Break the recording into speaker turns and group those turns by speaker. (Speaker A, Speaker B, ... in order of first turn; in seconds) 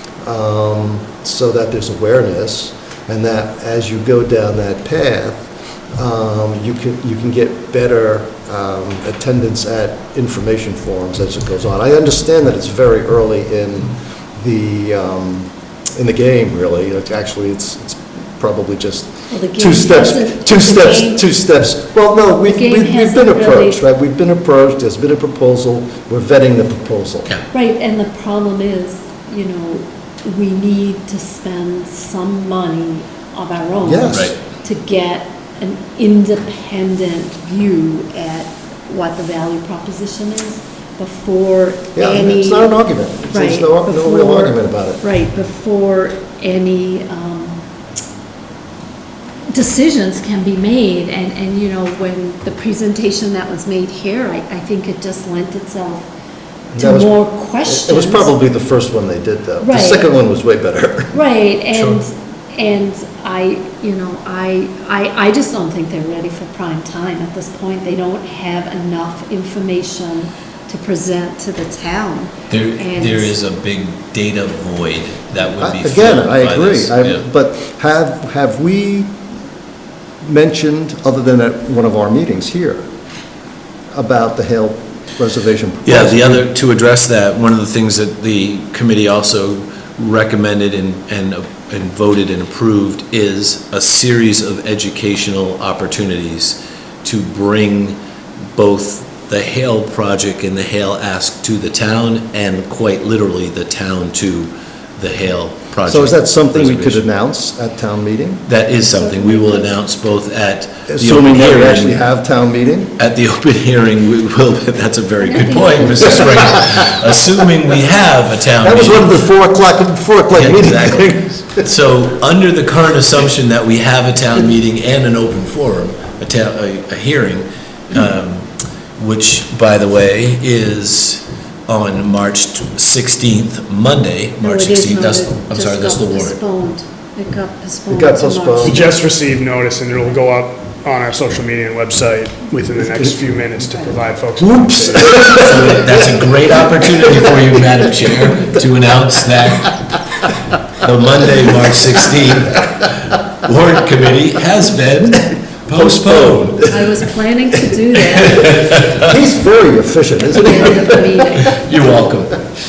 Speaker A: 0.2-27.3, 33.8-34.3, 42.0-45.0, 56.7-61.1, 75.6-79.2, 80.2-82.8, 83.9-86.4, 105.9-108.5, 110.9-112.9, 116.1-116.6, 118.6-121.7, 137.9-138.9, 144.4-146.0, 155.7-156.8, 158.9-161.3
Speaker B: 19.3-21.2, 22.4-23.8, 27.5-42.8, 43.3-47.6, 49.5-56.1, 56.8-58.3, 59.6-60.1, 61.1-73.3, 108.8-109.8, 115.2-116.6, 134.4-138.9, 156.7-158.8, 160.3-161.7
Speaker C: 34.1-34.4, 61.7-62.0, 72.5-77.2, 85.9-98.0, 98.6-107.0, 108.5-112.0, 113.0-119.3, 120.3-136.4, 145.3-149.8, 150.8-152.9, 153.4-156.7, 158.4-159.1, 161.5-162.4
Speaker D: 138.6-145.4